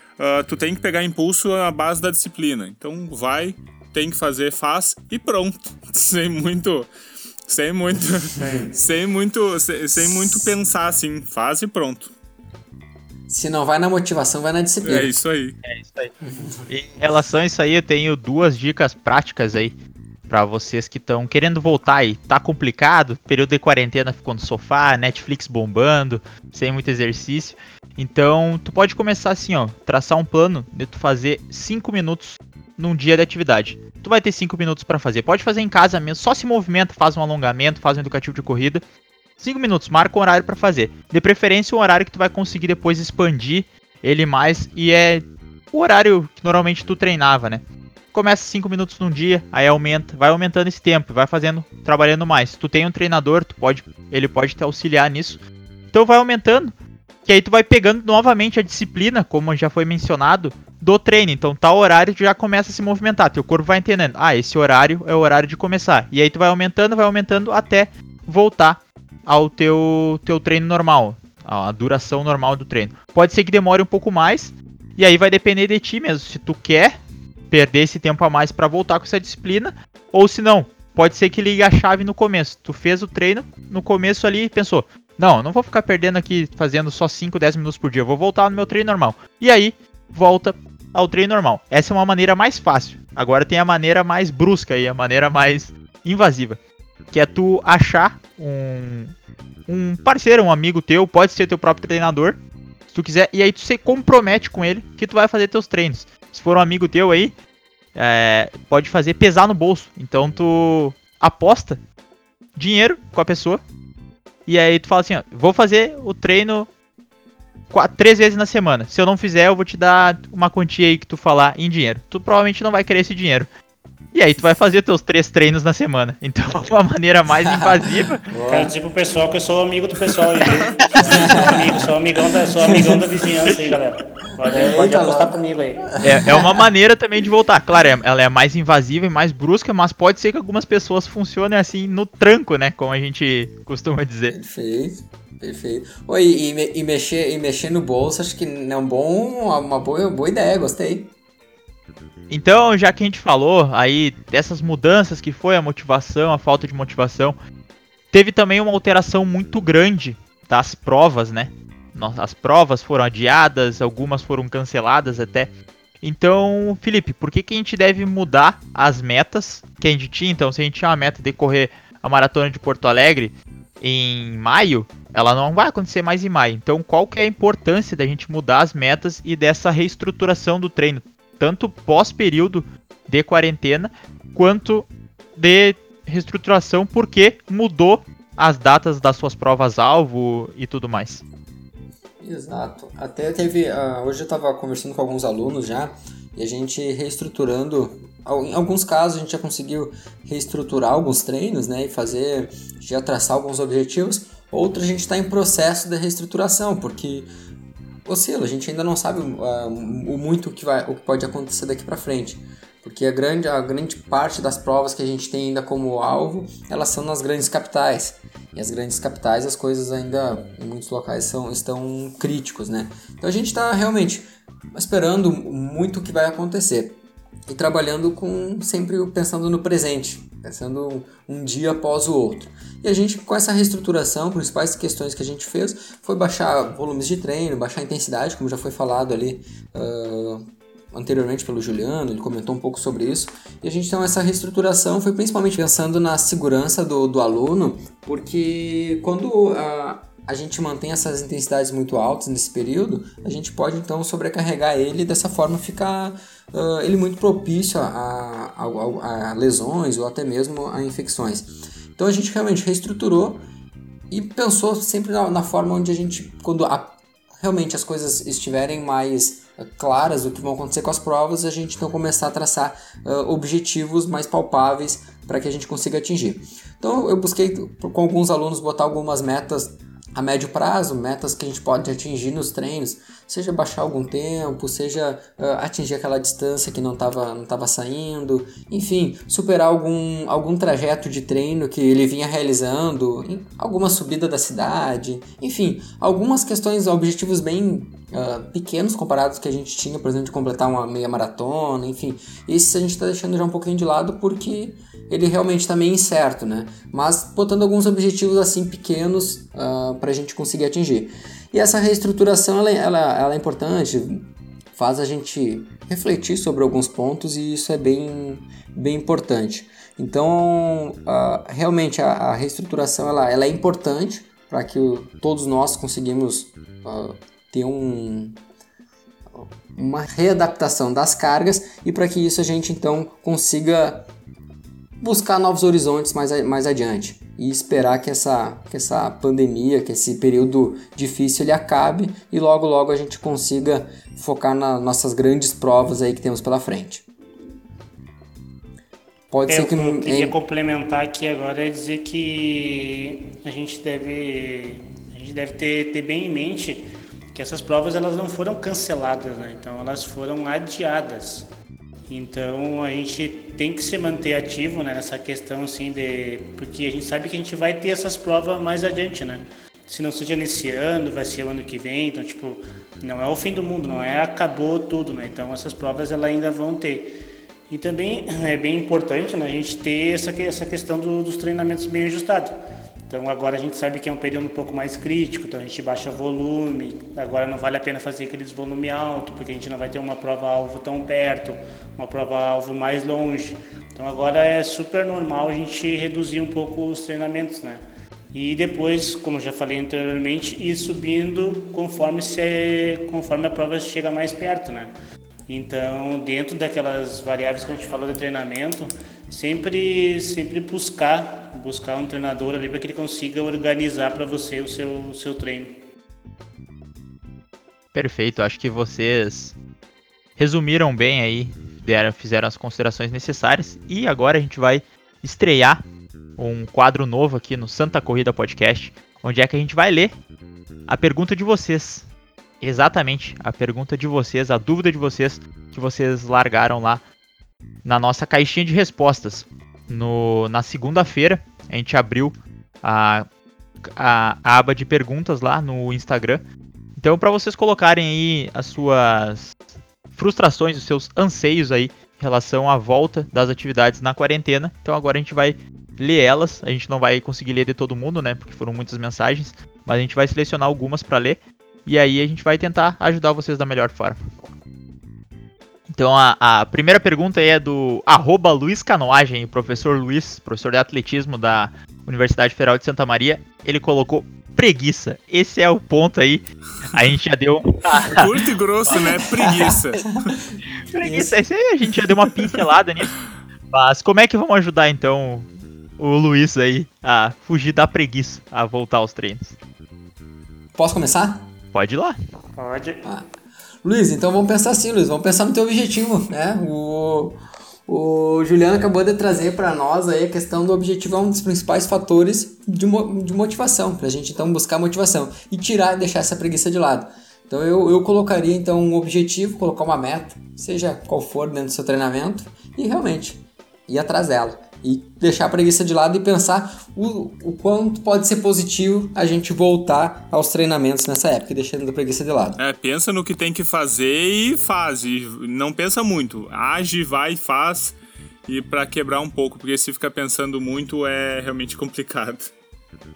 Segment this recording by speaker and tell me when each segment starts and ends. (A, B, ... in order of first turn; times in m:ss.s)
0:00.2-0:06.9 A
0:07.5-0:12.1 A
0:08.4-0:08.7 B
0:10.0-0:10.4 C
0:13.3-0:15.1 C
0:14.8-0:15.6 A
0:15.6-0:16.1 D
0:16.7-0:19.8 D
0:20.3-0:38.8 D
0:39.4-0:55.4 D
0:55.9-0:56.7 D
0:57.2-1:17.0 D
1:17.5-1:36.6 D
1:37.1-1:39.1 D
1:39.7-1:42.4 D
1:42.9-1:47.3 D
1:47.9-1:51.8 D
1:52.5-1:53.6 D
1:54.4-1:56.7 D
1:57.7-2:03.5 D
2:04.1-2:08.2 D
2:08.3-2:08.7 C
2:08.5-2:15.9 B
2:11.0-2:11.9 C
2:12.6-2:13.2 C
2:14.4-2:16.7 C
2:16.0-2:24.4 D
2:24.3-2:31.1 C
2:32.3-2:37.4 D
2:38.1-2:45.5 D
2:46.0-3:11.2 D
3:12.2-3:27.3 C
3:28.0-4:23.4 C
4:24.1-5:28.4 C
5:29.3-5:34.0 C
5:35.0-5:47.0 C
5:49.3-5:50.4 C
5:49.5-6:01.5 B
6:02.1-6:17.1 B
6:17.7-6:22.5 B
6:23.1-6:37.8 B
6:38.3-6:44.9 B
6:45.5-6:55.8 B
6:57.9-6:59.6 D
7:00.4-7:05.8 D
7:06.4-7:10.1 D
7:10.9-7:12.1 D
7:12.6-7:17.0 D
7:17.8-7:23.3 D
7:23.8-7:26.4 D
7:27.0-7:29.6 D
7:30.1-7:44.2 D
7:45.9-7:58.3 D
7:58.0-8:00.2 A
7:59.5-8:00.4 C
8:00.9-8:03.1 D
8:01.0-8:01.3 C
8:03.7-8:09.6 D
8:10.7-8:11.5 C
8:11.7-8:12.2 D
8:12.6-8:13.0 B
8:13.8-8:42.6 C
8:42.6-8:52.5 A